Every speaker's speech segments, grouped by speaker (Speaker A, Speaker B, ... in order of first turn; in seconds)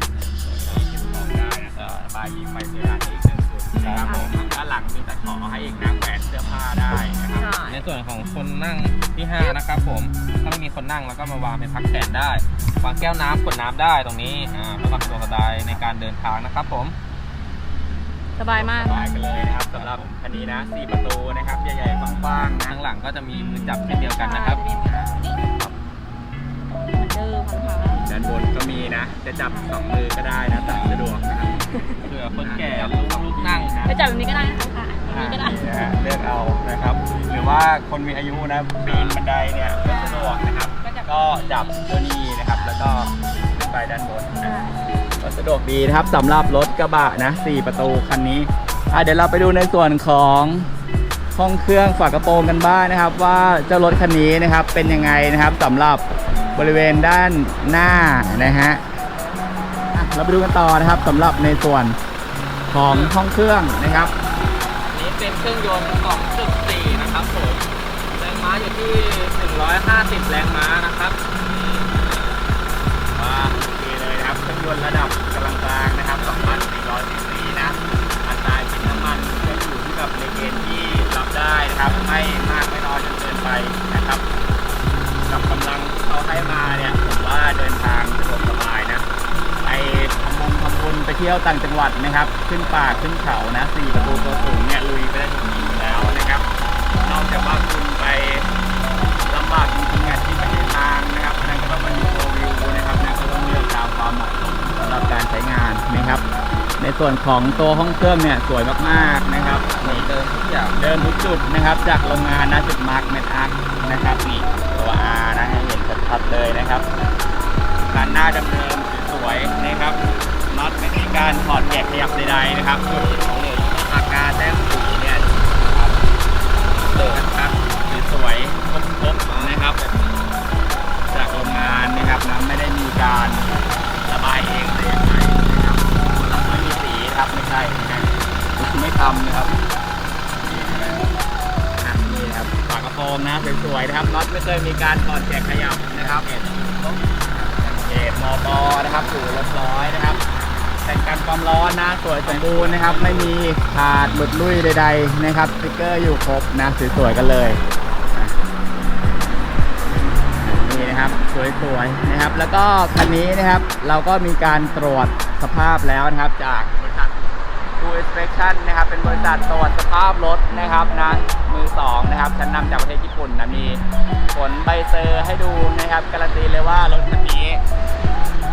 Speaker A: 0.4-7.5, 18.5-22.8, 27.9-31.7, 32.4-34.0, 35.1-44.5, 45.2-50.7, 51.3-56.0, 56.5-58.8, 59.9-62.0, 62.7-64.1, 73.1-84.2, 85.3-89.1, 89.6-96.5, 97.0-98.5, 99.3-106.2, 106.8-110.1, 110.7-116.9, 117.9-123.1, 123.7-125.9, 126.9-129.8, 131.1-133.5, 134.1-139.6, 140.4-141.0, 141.8-146.3, 147.5-150.2, 150.8-157.6, 160.4-177.6
Speaker B: 0.6-0.9, 1.7-2.0, 3.8-4.4, 7.3-16.9, 19.6-20.0, 22.6-24.6, 30.6-31.0, 32.0-33.8, 38.8-39.2, 62.9-63.2, 64.9-72.4, 76.1-76.7, 81.6-82.2, 109.6-111.1, 122.9-123.7, 126.7-127.2, 129.2-130.9, 145.9-147.1, 152.2-153.3
Speaker C: 4.0-4.3, 7.3-7.9, 18.4-19.1, 24.1-25.4, 26.7-28.0, 29.5-29.8, 31.7-32.0, 33.8-35.6, 39.8-41.8, 44.4-44.8